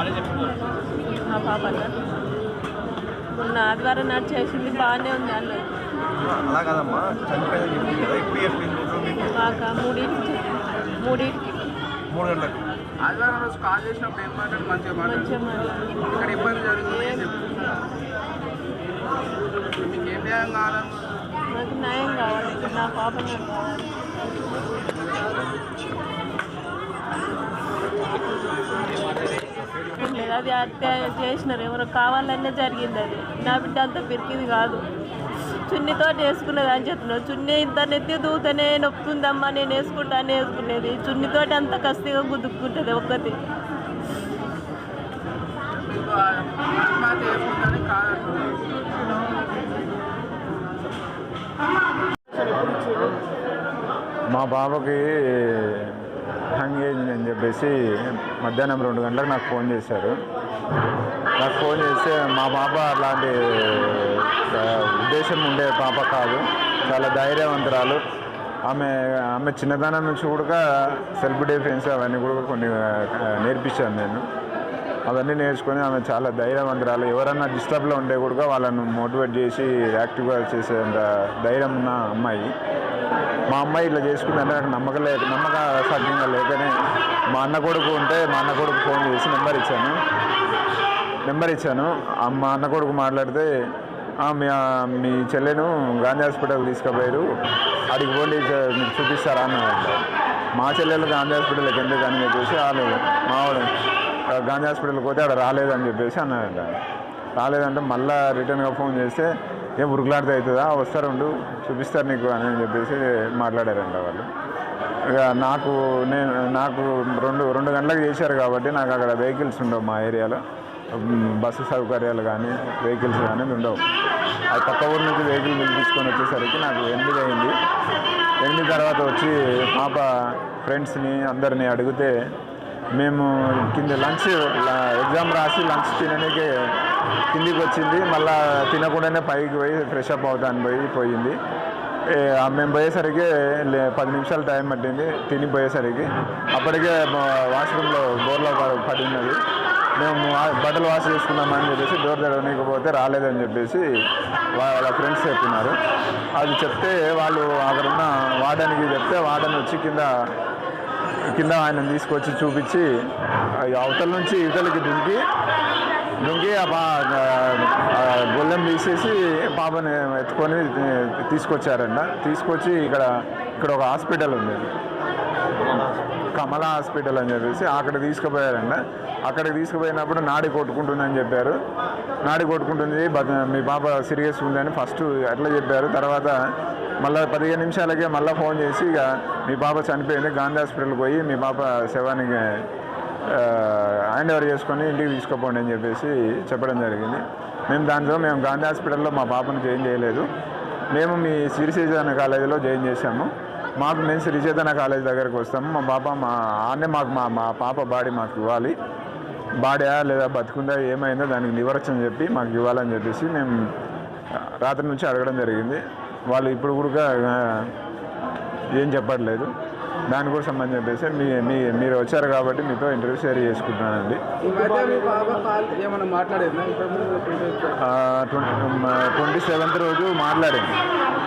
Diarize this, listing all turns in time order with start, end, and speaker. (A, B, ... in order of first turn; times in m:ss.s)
0:01.2-0:01.9 A
0:03.3-0:05.7 A
0:06.3-0:09.2 B
0:09.0-0:11.5 A
0:12.1-0:12.6 B
0:13.0-0:17.8 C
0:15.0-0:15.7 A
0:16.8-0:17.3 A
0:19.8-0:21.1 C
0:21.5-0:23.9 A
0:30.0-0:34.8 A
0:35.7-0:43.4 A
0:45.7-0:48.9 C
0:54.3-1:00.2 D
1:01.4-1:08.0 D
1:08.7-1:14.2 D
1:15.1-1:22.5 D
1:23.5-1:26.7 D
1:27.3-1:30.0 D
1:31.3-1:33.5 D
1:34.2-1:37.2 D
1:37.9-1:40.0 D
1:40.6-1:43.7 D
1:44.3-1:46.7 D
1:47.4-1:54.3 D
1:55.1-2:00.4 D
2:00.9-2:03.8 D
2:04.5-2:07.5 D
2:08.4-2:12.1 D
2:13.0-2:16.5 D
2:17.3-2:21.4 D
2:22.1-2:29.4 D
2:30.0-2:33.8 D
2:34.6-2:35.8 D
2:36.4-2:40.1 D
2:41.3-2:42.9 D
2:43.6-2:45.2 D
2:46.2-2:54.7 D
2:56.3-3:01.6 D
3:02.2-3:06.4 D
3:07.0-3:12.6 D
3:13.3-3:20.3 D
3:20.9-3:28.7 D
3:29.6-3:33.5 D
3:34.6-3:37.7 D
3:38.8-3:39.5 D
3:40.1-3:44.2 D
3:44.4-3:47.7 C
3:47.8-3:50.8 D